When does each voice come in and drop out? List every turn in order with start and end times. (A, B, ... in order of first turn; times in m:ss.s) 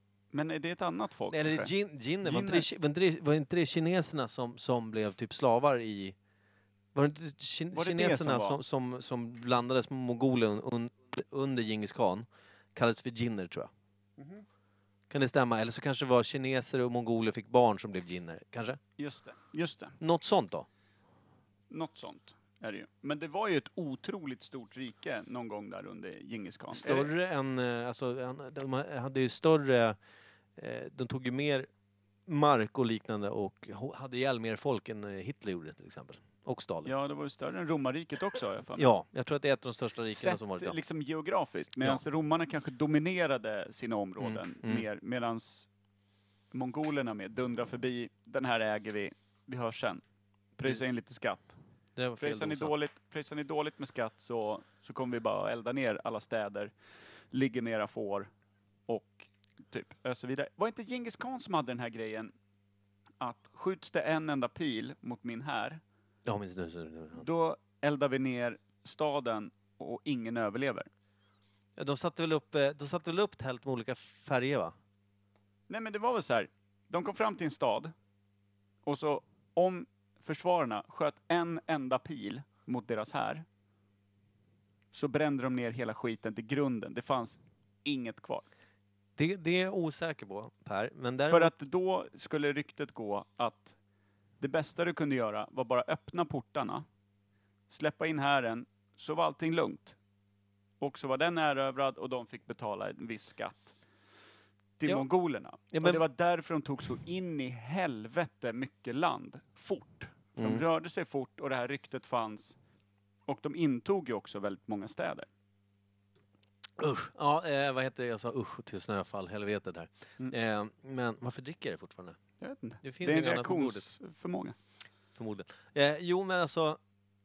0:00.3-0:01.7 A
0:01.3-0:06.1 B
0:02.2-0:02.7 A
0:06.9-0:13.7 B
0:07.7-0:08.6 A
0:15.1-0:18.8 B
0:19.0-0:20.0 A
0:20.0-0:20.7 B
0:21.7-0:27.1 A
0:26.7-0:30.0 B
0:30.6-0:31.7 B
0:32.3-0:36.9 B
0:36.8-0:38.9 A
0:38.8-0:40.8 B
0:40.1-0:45.7 A
0:44.2-0:44.8 B
0:46.5-0:50.0 A
0:50.6-0:51.6 A
0:52.0-0:52.7 B
0:52.2-0:56.7 A
0:57.3-0:58.3 A
0:58.9-1:02.3 A
1:03.2-1:05.8 A
1:06.2-1:07.2 B
1:07.2-1:10.9 A
1:11.8-1:14.7 B
1:15.7-1:17.9 A
1:18.8-1:23.4 A
1:24.9-1:28.4 A
1:29.2-1:31.5 B
1:31.3-1:33.8 A
1:34.4-1:36.8 A
1:37.7-1:40.0 A
1:40.8-1:43.8 A
1:44.8-1:52.6 A
1:45.7-1:46.0 B
1:50.4-1:50.6 B
1:53.2-1:55.3 A
1:56.8-2:02.2 B
2:02.4-2:04.6 A
2:02.8-2:03.9 B
2:05.1-2:06.8 B